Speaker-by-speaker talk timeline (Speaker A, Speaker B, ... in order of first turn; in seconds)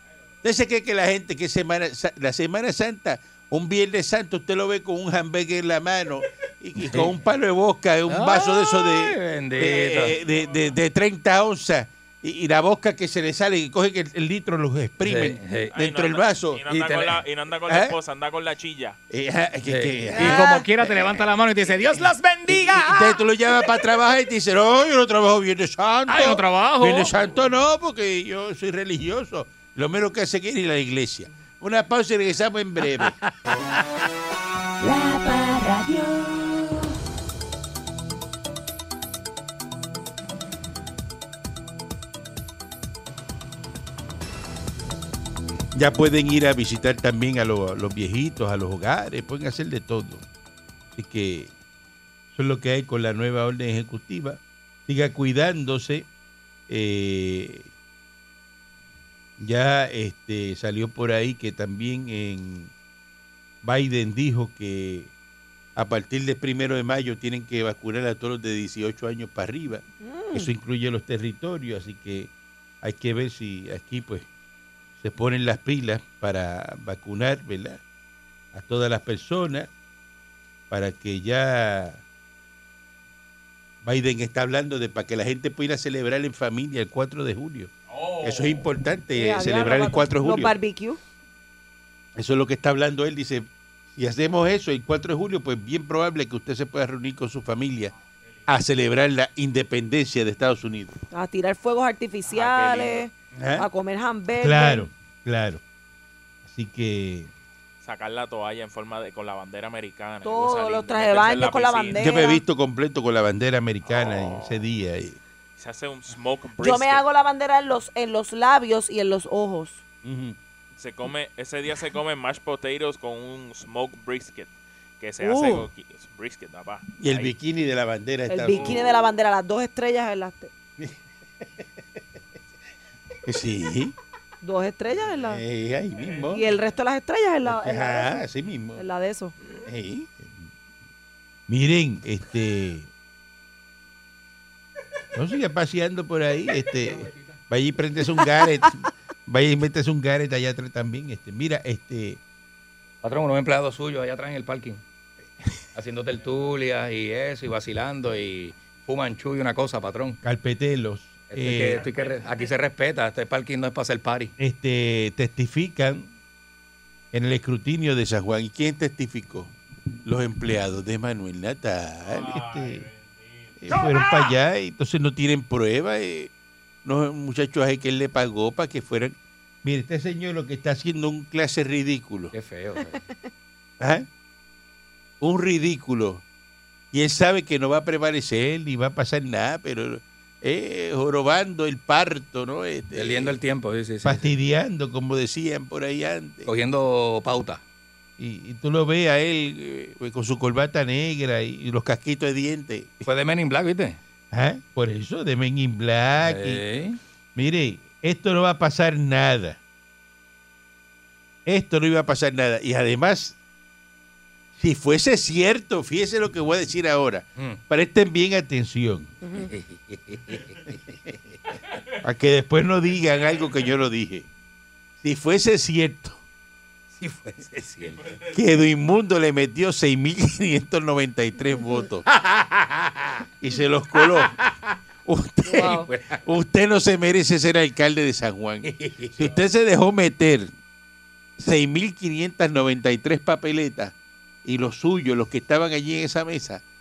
Speaker A: 0.4-16.6, 17.7-18.0, 19.1-21.3, 22.0-33.2, 45.7-50.2, 51.0-51.5, 52.3-56.1, 56.7-57.7, 59.4-62.7, 63.6-65.1, 65.8-72.3, 72.8-74.3, 75.0-77.8, 78.5-79.7, 80.7-82.0, 83.8-90.5, 92.2-97.9, 98.5-101.0, 103.3-103.7, 104.4-105.6, 106.5-107.3, 112.0-115.2, 120.0-120.4, 127.0-129.1, 133.2-134.0, 135.1-136.5, 137.4-138.8, 139.6-140.4, 141.5-142.9, 145.1-152.2, 160.2-161.8, 164.4-166.1, 167.1-169.5, 170.1-172.9, 173.6-176.3, 176.8-182.3, 183.8-184.1, 185.2-186.2, 186.9-193.4, 194.0-196.5, 198.2-203.1, 204.3-206.6, 207.3-209.6, 211.5-213.4, 214.6-219.1, 222.0-224.3, 225.0-226.2, 228.3-232.1, 233.4-234.4, 235.1-240.5, 241.4-243.9, 244.4-246.6
Speaker B: 6.8-7.1, 8.1-10.2, 15.0-15.7, 16.7-17.2, 19.7-23.2, 26.1-27.1, 153.0-154.8, 155.8-160.2, 161.3-164.3, 182.3-183.0, 192.9-194.3, 196.4-197.6, 203.1-204.0, 206.2-207.0, 219.4-220.8, 226.9-228.2, 232.1-233.3, 234.0-234.7, 235.6-236.2, 238.6-239.4
Speaker C: 10.2-10.6, 15.7-19.0, 87.9-88.6, 102.3-103.1, 107.8-112.1, 113.8-114.7, 115.6-117.0, 120.8-127.3, 136.0-136.3, 172.0-173.5, 223.2-223.6, 228.1-228.3
Speaker D: 34.8-36.9
Speaker E: 70.0-70.5, 89.2-91.0, 101.1-104.9, 110.2-112.4, 116.6-119.8, 125.2-125.7, 128.3-130.5, 134.4-135.4, 136.3-138.2, 138.8-139.3, 219.2-219.5, 235.5-235.9